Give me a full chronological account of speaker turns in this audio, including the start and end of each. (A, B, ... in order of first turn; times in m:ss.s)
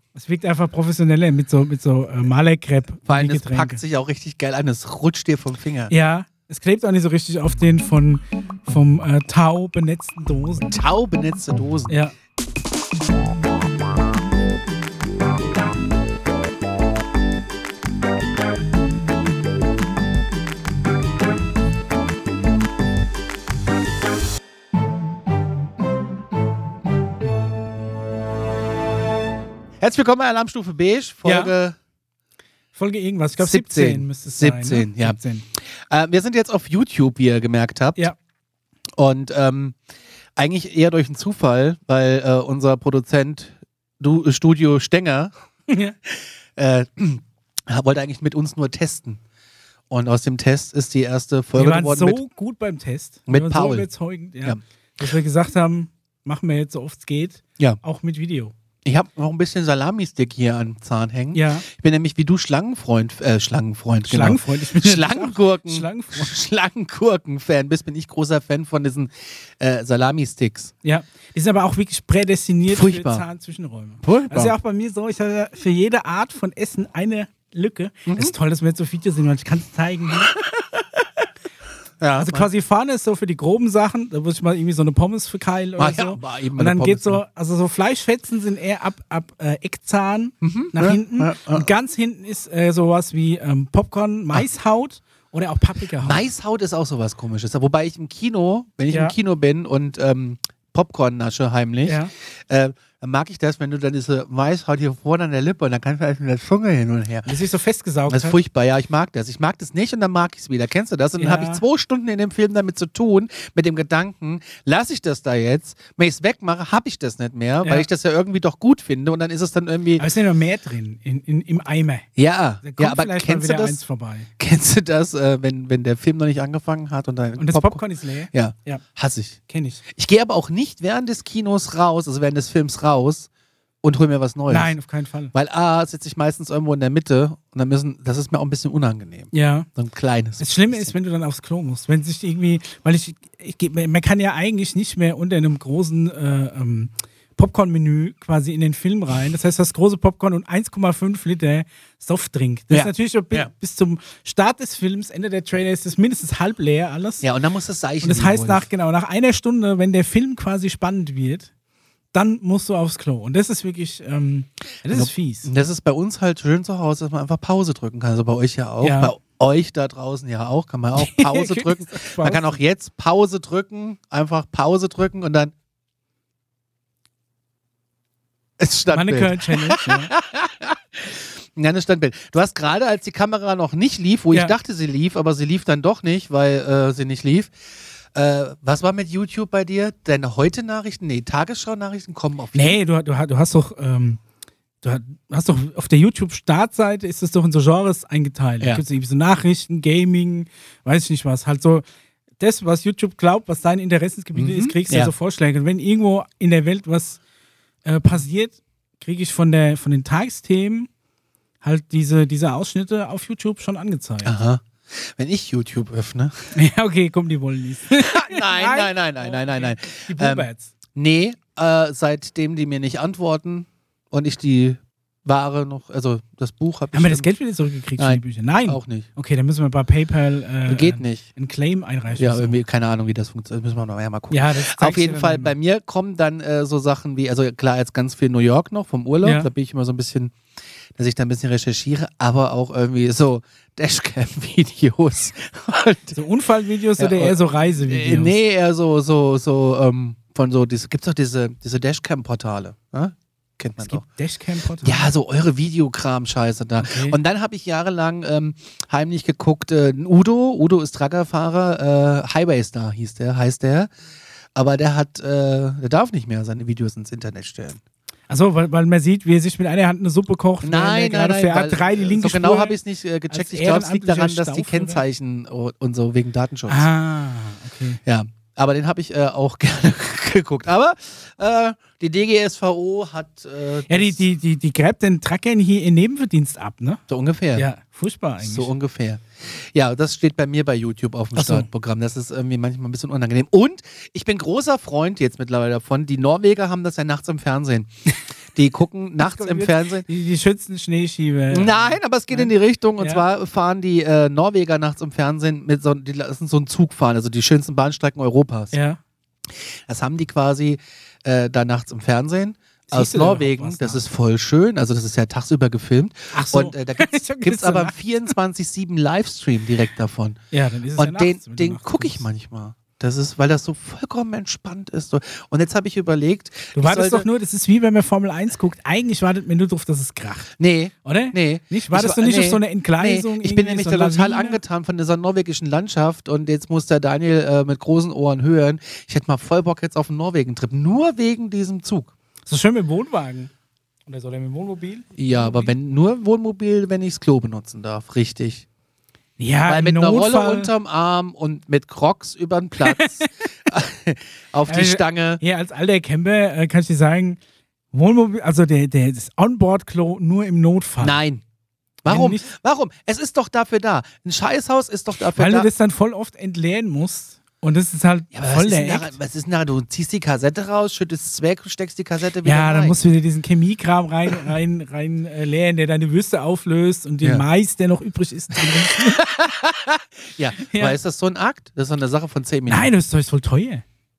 0:00.2-0:03.8 A
0:03.1-0:05.9 B
0:05.9-0:10.7 A
0:10.7-0:11.9 B
0:11.9-0:12.1 A
0:29.8-0:31.8 B
0:31.2-0:31.5 A
0:32.8-0:35.4 A
0:33.4-0:35.2 B
0:35.9-0:38.0 B
0:39.0-0:39.8 B
0:40.4-0:45.3 B
0:45.7-0:46.0 A
0:46.1-0:49.2 B
0:49.9-0:52.2 B
0:51.6-0:58.5 A
0:53.3-0:53.9 B
0:58.8-1:10.7 B
1:01.3-1:01.7 A
1:04.1-1:06.3 A
1:10.8-1:20.3 A
1:12.7-1:13.2 B
1:14.0-1:14.6 B
1:18.1-1:18.3 B
1:22.0-1:22.5 B
1:22.2-1:36.2 A
1:25.8-1:27.2 B
1:30.4-1:31.7 B
1:36.0-1:47.3 B
1:38.9-1:39.2 A
1:41.8-1:42.1 A
1:47.3-1:48.4 A
1:48.1-2:00.0 B
1:51.2-1:51.6 A
2:00.0-2:02.1 A
2:02.2-2:03.8 B
2:02.6-2:04.3 A
2:04.4-2:09.4 B
2:07.4-2:08.8 A
2:09.5-2:09.8 A
2:09.9-2:13.3 B
2:13.8-2:14.7 B
2:14.5-2:15.3 A
2:15.3-2:20.9 B
2:19.3-2:19.7 A
2:20.4-2:37.2 A
2:32.7-2:33.5 B
2:37.2-2:38.7 B
2:38.0-2:41.5 A
2:42.1-2:45.5 A
2:44.9-2:55.5 B
2:48.8-2:49.1 A
2:51.0-2:52.6 A
2:58.6-3:07.5 B
2:58.9-3:00.1 A
3:08.1-3:12.8 B
3:12.6-3:14.2 A
3:14.8-3:21.8 A
3:22.4-3:27.2 A
3:24.4-3:25.1 B
3:27.8-3:30.9 A
3:31.6-3:34.3 A
3:34.2-3:36.5 B
3:36.6-3:40.7 A
3:38.0-3:47.3 B
3:46.9-3:52.6 A
3:48.0-3:49.1 B
3:50.7-3:51.3 B
3:52.2-4:00.4 B
3:54.3-3:55.5 A
3:59.2-3:59.5 A
4:01.0-4:06.2 B
4:06.2-4:08.3 A
4:07.0-4:14.0 B
4:13.8-4:15.1 A
4:14.8-4:23.9 B
4:16.8-4:17.2 A
4:24.6-4:27.8 B
4:28.3-4:32.8 A
4:30.6-4:36.9 B
4:33.3-4:35.0 A
4:36.7-4:38.0 A
4:38.0-4:44.2 B
4:43.9-4:47.0 A
4:47.1-4:47.7 B
4:47.6-4:48.7 A
4:48.4-4:57.9 B
4:51.4-4:51.7 A
4:58.5-5:00.1 B
4:59.2-5:03.2 A
5:01.5-5:08.7 B
5:08.7-5:09.0 A
5:09.6-5:20.4 B
5:12.9-5:14.0 A
5:16.3-5:18.0 A
5:20.5-5:22.2 A
5:21.0-5:27.3 B
5:26.8-5:30.5 A
5:30.6-5:42.1 B
5:31.0-5:34.6 A
5:42.5-5:43.5 A
5:44.1-5:45.7 A
5:45.2-5:48.7 B
5:49.4-5:50.7 A
5:49.7-5:55.4 B
5:52.8-5:53.3 A
5:54.7-5:57.4 A
5:57.9-6:01.2 A
6:01.0-6:01.4 B
6:02.0-6:05.7 B
6:02.1-6:02.5 A
6:05.2-6:09.2 A
6:08.3-6:13.0 B
6:12.4-6:19.2 A
6:18.6-6:22.9 B
6:20.7-6:21.0 A
6:22.7-6:23.8 A